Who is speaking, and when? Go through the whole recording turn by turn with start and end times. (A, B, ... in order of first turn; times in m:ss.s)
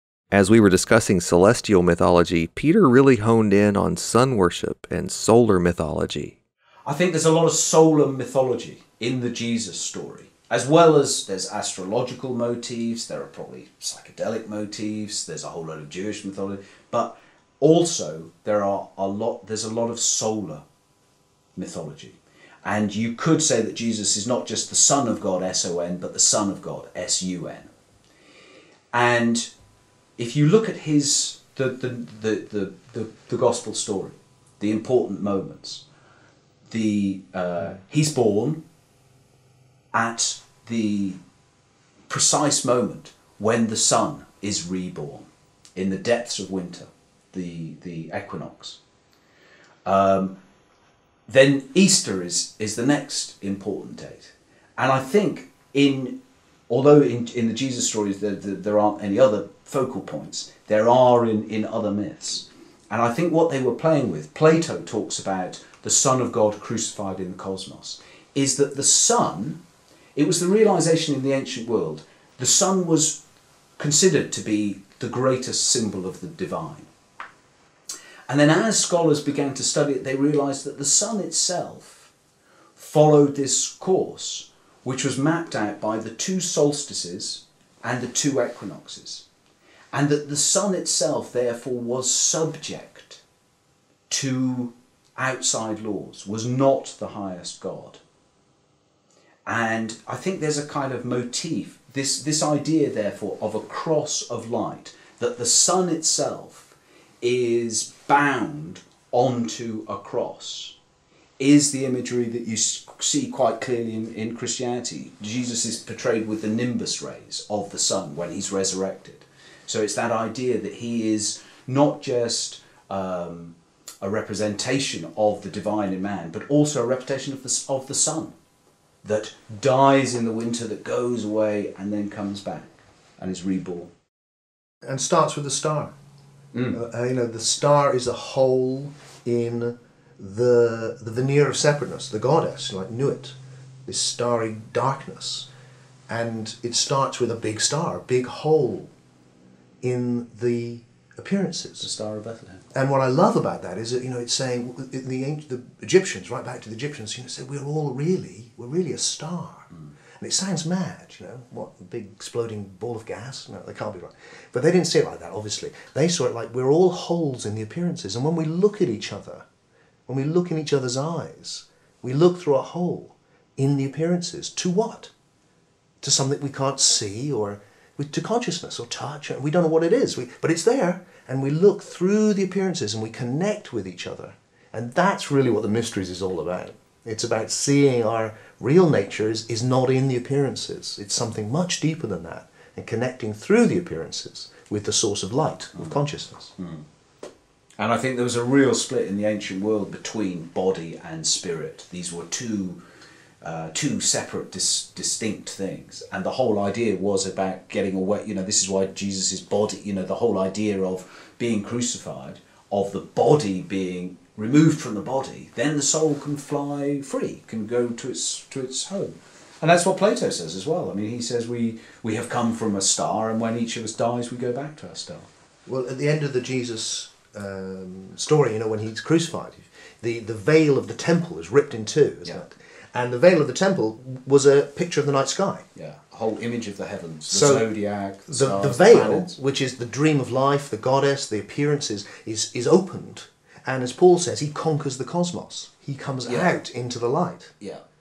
0:00.3-0:06.3 A
0:06.9-0:20.6 B
0:21.6-0:27.7 B
0:28.9-0:29.5 B
0:30.2-0:35.8 B
0:36.7-0:38.6 B
0:39.9-0:41.2 B
0:42.1-0:48.8 B
0:49.8-0:50.3 B
0:51.3-0:56.2 B
0:56.7-1:09.6 B
1:10.2-1:13.2 B
1:13.8-1:16.9 B
1:18.3-1:22.1 B
1:22.8-1:29.2 B
1:29.9-1:33.2 B
1:34.1-1:38.0 B
1:39.4-1:50.7 B
1:51.4-2:08.3 B
2:09.0-2:13.9 B
2:14.8-2:15.9 C
2:16.5-2:16.8 B
2:16.7-2:23.3 C
2:23.8-2:25.5 C
2:26.1-2:28.9 C
2:29.8-2:31.9 C
2:31.8-2:32.6 B
2:32.7-2:49.4 C
2:50.1-2:55.1 C
2:56.0-3:16.5 C
3:16.6-3:16.8 B
3:17.8-3:22.8 B
3:23.4-3:45.3 B
3:45.6-3:55.6 C
3:55.7-3:59.3 B
3:57.3-3:57.7 C
3:58.3-4:07.5 C
4:06.2-4:06.5 B